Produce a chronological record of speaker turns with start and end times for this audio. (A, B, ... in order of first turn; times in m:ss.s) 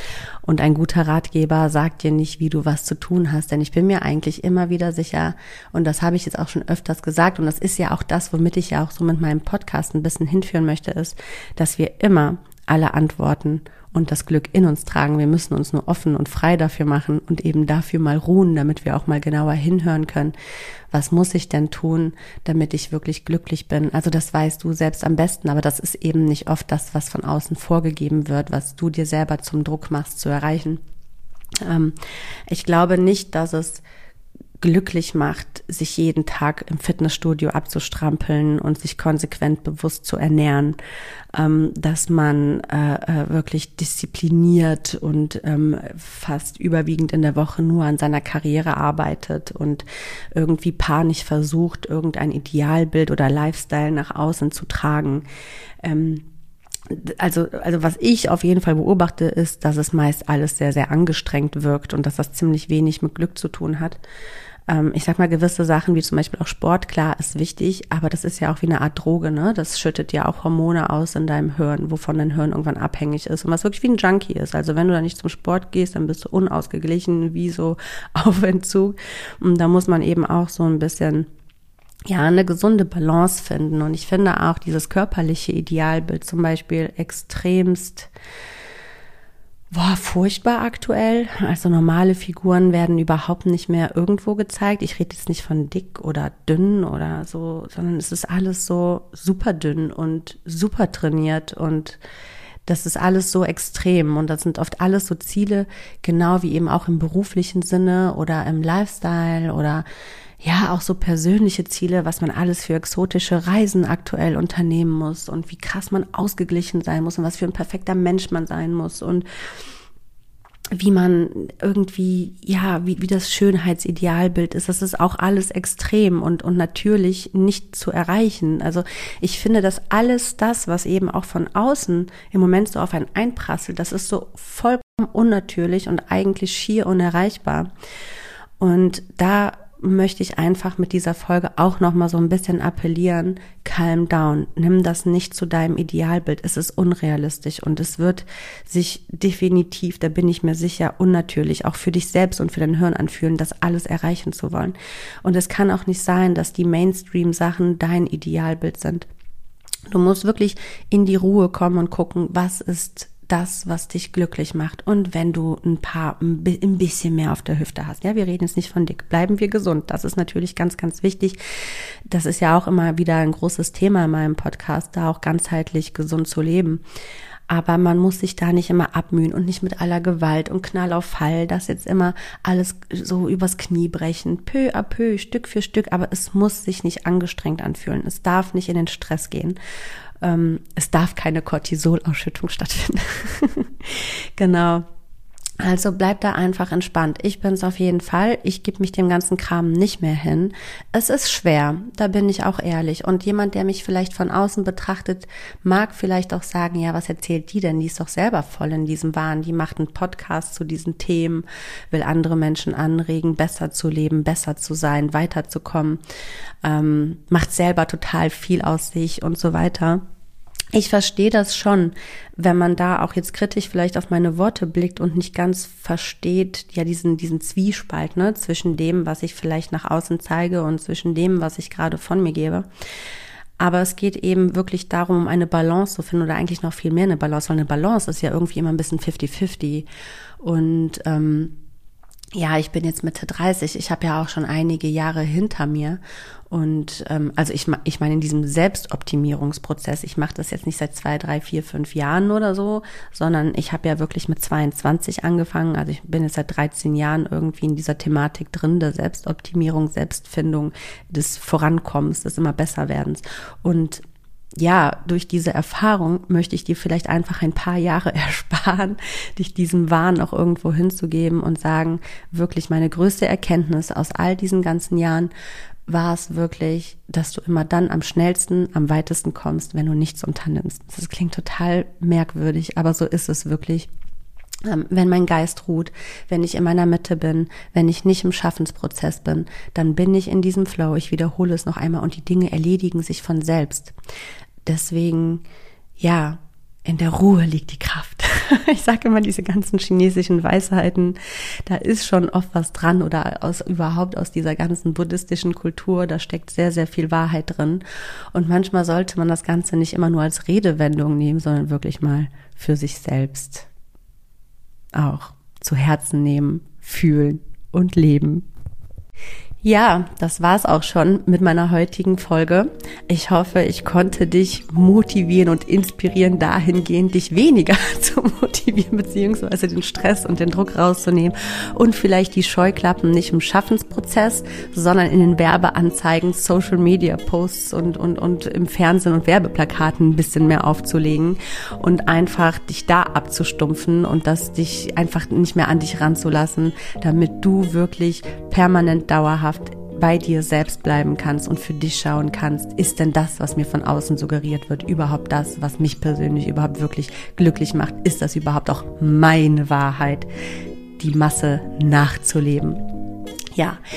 0:00.4-0:20.3 A
0:20.9-0:30.8 A
0:31.6-0:32.0 A
0:32.5-0:33.8 A
0:34.6-0:40.8 A
0:41.3-0:55.2 A
0:55.8-0:56.2 A
0:56.9-1:04.0 A
1:04.7-1:21.3 A
1:22.1-1:28.1 A
1:29.7-1:42.0 A
1:42.7-1:49.8 A
1:50.4-1:59.2 A
2:00.7-2:17.7 A
2:18.6-2:39.0 A
2:39.9-2:51.4 A
2:52.1-2:56.8 A
2:57.5-3:09.6 A
3:10.2-3:14.8 A
3:15.6-3:36.0 A
3:36.6-3:40.0 A
3:40.7-3:52.7 A
3:53.6-3:59.9 A
4:00.4-4:01.5 A
4:02.3-4:24.0 A
4:24.6-4:35.3 A
4:35.9-4:43.9 A
4:44.6-4:53.9 A
4:54.6-4:55.4 A
4:56.0-5:13.7 A
5:14.9-5:18.5 A
5:19.6-6:00.3 A
6:01.0-6:02.8 A
6:03.5-6:03.8 A